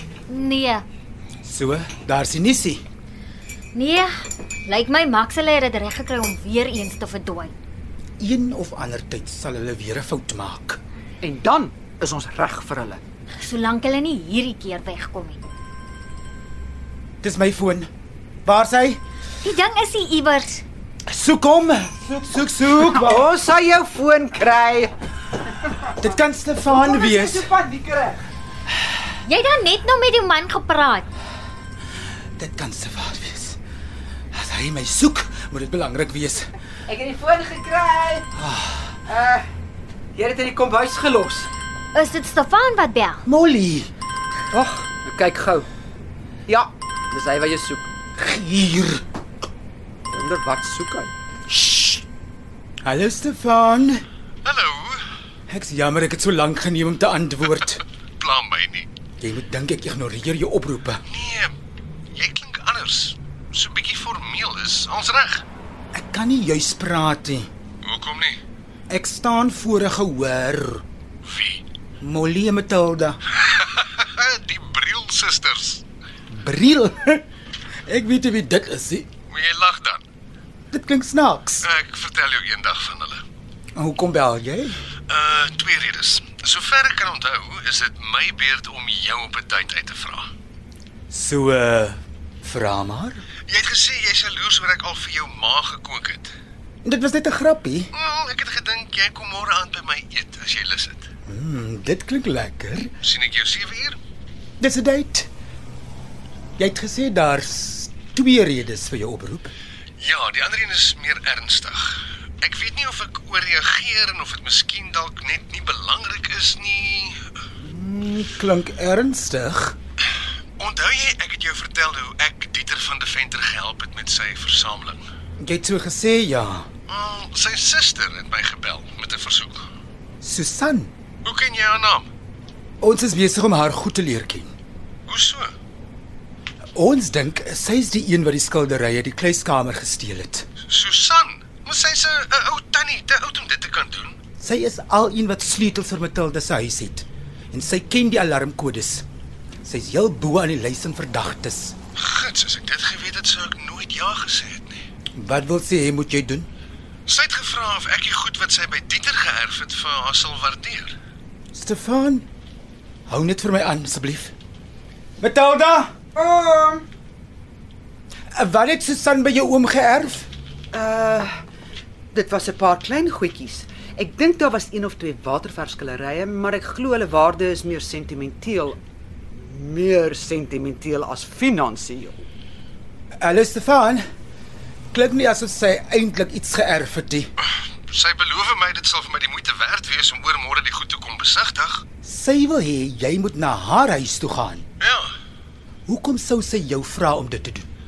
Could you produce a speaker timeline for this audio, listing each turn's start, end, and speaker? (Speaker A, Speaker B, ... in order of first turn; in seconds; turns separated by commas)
Speaker A: 0.3-0.8, Speaker B: 1.4-2.8, Speaker A: 3.7-4.1, Speaker A: 4.7-7.5, Speaker B: 8.2-10.8, Speaker C: 11.2-13.0, Speaker A: 13.4-15.4, Speaker B: 17.2-17.9, Speaker B: 18.4-19.0, Speaker A: 19.4-20.6, Speaker B: 21.1-23.2, Speaker C: 22.8-24.9, Speaker B: 25.9-27.5, Speaker C: 26.7-28.2, Speaker A: 29.2-31.1, Speaker B: 32.4-33.6, Speaker B: 34.3-36.5, Speaker C: 36.9-38.3, Speaker B: 38.4-39.0, Speaker C: 39.1-39.5, Speaker C: 40.1-41.5, Speaker A: 41.9-43.2, Speaker B: 43.2-43.9, Speaker C: 44.5-45.7, Speaker C: 46.5-47.9, Speaker B: 48.2-49.0, Speaker C: 50.1-51.1, Speaker B: 51.5-52.0, Speaker B: 52.9-54.0, Speaker D: 54.4-55.0, Speaker B: 55.5-57.8, Speaker D: 58.2-58.9, Speaker B: 59.2-61.0, Speaker D: 61.1-61.5, Speaker D: 62.1-65.4, Speaker B: 65.9-67.5, Speaker D: 67.8-68.4, Speaker B: 68.9-70.8, Speaker D: 71.2-71.6, Speaker B: 72.0-73.2, Speaker D: 73.3-75.8, Speaker B: 76.3-77.2, Speaker B: 77.9-79.1, Speaker D: 79.3-80.0, Speaker B: 80.7-81.7, Speaker D: 81.6-83.2, Speaker B: 83.8-84.8, Speaker D: 85.1-90.3, Speaker B: 91.1-93.2, Speaker D: 93.5-96.3, Speaker B: 96.8-97.9, Speaker D: 97.9-101.0, Speaker B: 101.2-102.9, Speaker D: 103.0-104.0, Speaker B: 104.6-105.3, Speaker B: 106.6-109.5, Speaker D: 110.0-117.2, Speaker B: 117.6-119.8, Speaker D: 120.6-125.0, Speaker B: 125.4-126.7, Speaker D: 126.9-129.7, Speaker B: 130.2-130.9, Speaker D: 131.2-132.1, Speaker B: 132.8-134.5, Speaker D: 135.1-135.5, Speaker B: 136.8-140.5, Speaker D: 140.7-144.2, Speaker B: 144.4-149.1, Speaker B: 149.6-151.8, Speaker D: 151.9-154.8, Speaker B: 155.2-156.5, Speaker D: 157.1-160.9, Speaker B: 161.5-162.3, Speaker B: 163.1-164.3, Speaker B: 165.2-165.9, Speaker C: 166.2-166.9, Speaker B: 168.3-170.3, Speaker C: 170.7-171.3, Speaker C: 172.1-178.8, Speaker C: 179.3-182.2, Speaker B: 183.2-184.0, Speaker B: 184.9-187.3, Speaker D: 187.9-191.8, Speaker B: 192.0-194.7, Speaker D: 194.8-195.1, Speaker B: 195.9-197.7